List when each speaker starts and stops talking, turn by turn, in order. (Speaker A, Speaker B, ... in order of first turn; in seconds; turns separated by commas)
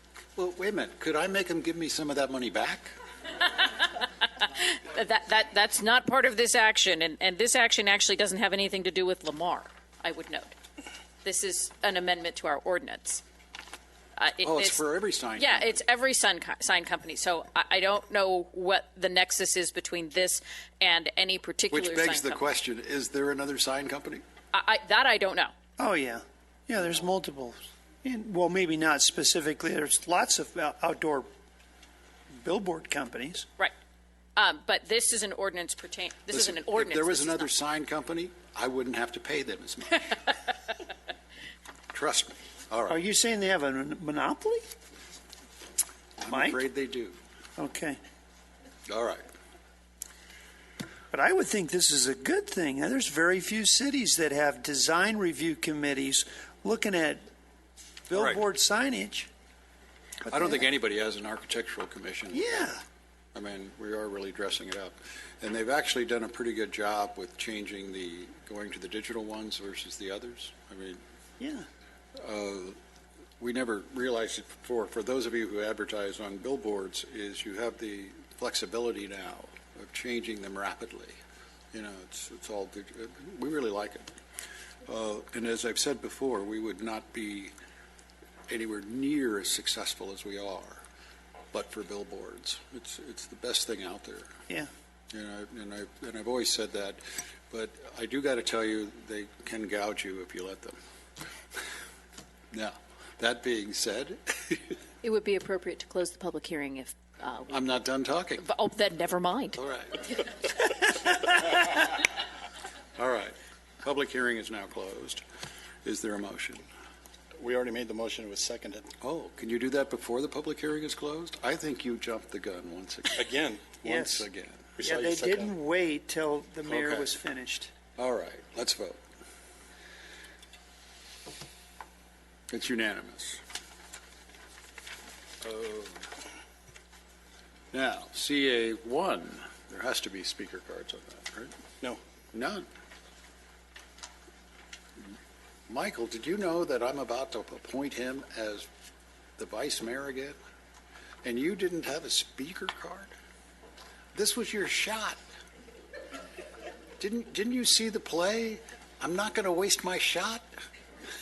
Speaker A: 0.4-2.9, Speaker B: 4.4-10.6, Speaker B: 11.2-13.2, Speaker B: 14.2-14.8, Speaker A: 14.4-15.7, Speaker B: 15.4-22.4, Speaker A: 21.7-24.2, Speaker B: 24.5-25.5, Speaker C: 25.8-31.3, Speaker C: 32.4-33.5, Speaker B: 34.4-37.5, Speaker A: 36.3-40.2, Speaker A: 41.9-43.0, Speaker C: 42.9-44.6, Speaker A: 46.2-47.2, Speaker C: 46.3-46.6, Speaker C: 47.6-48.0, Speaker A: 48.9-49.2, Speaker C: 51.1-57.2, Speaker C: 58.1-59.3, Speaker A: 58.1-58.4, Speaker A: 60.3-62.6, Speaker C: 60.3-60.6, Speaker C: 62.3-62.8, Speaker A: 63.4-71.0, Speaker C: 71.4-71.7, Speaker A: 72.2-72.8, Speaker A: 73.4-81.2, Speaker A: 81.7-84.1, Speaker A: 84.8-87.5, Speaker A: 88.5-90.8, Speaker A: 91.5-94.3, Speaker A: 95.1-100.8, Speaker A: 102.5-104.8, Speaker B: 105.0-107.7, Speaker A: 107.5-108.5, Speaker B: 108.4-109.6, Speaker A: 109.6-110.3, Speaker A: 113.0-115.2, Speaker A: 115.8-116.6, Speaker D: 117.4-118.9, Speaker A: 119.0-124.7, Speaker D: 123.2-123.8, Speaker C: 123.8-124.3, Speaker D: 124.8-125.5, Speaker C: 124.8-127.7, Speaker A: 126.7-127.1, Speaker A: 128.0-129.0, Speaker A: 132.5-133.4, Speaker A: 135.4-136.1, Speaker A: 137.7-141.5, Speaker A: 142.3-142.7, Speaker A: 145.7-148.7, Speaker A: 149.4-150.4, Speaker A: 151.2-153.1, Speaker A: 154.2-155.2, Speaker A: 157.0-160.5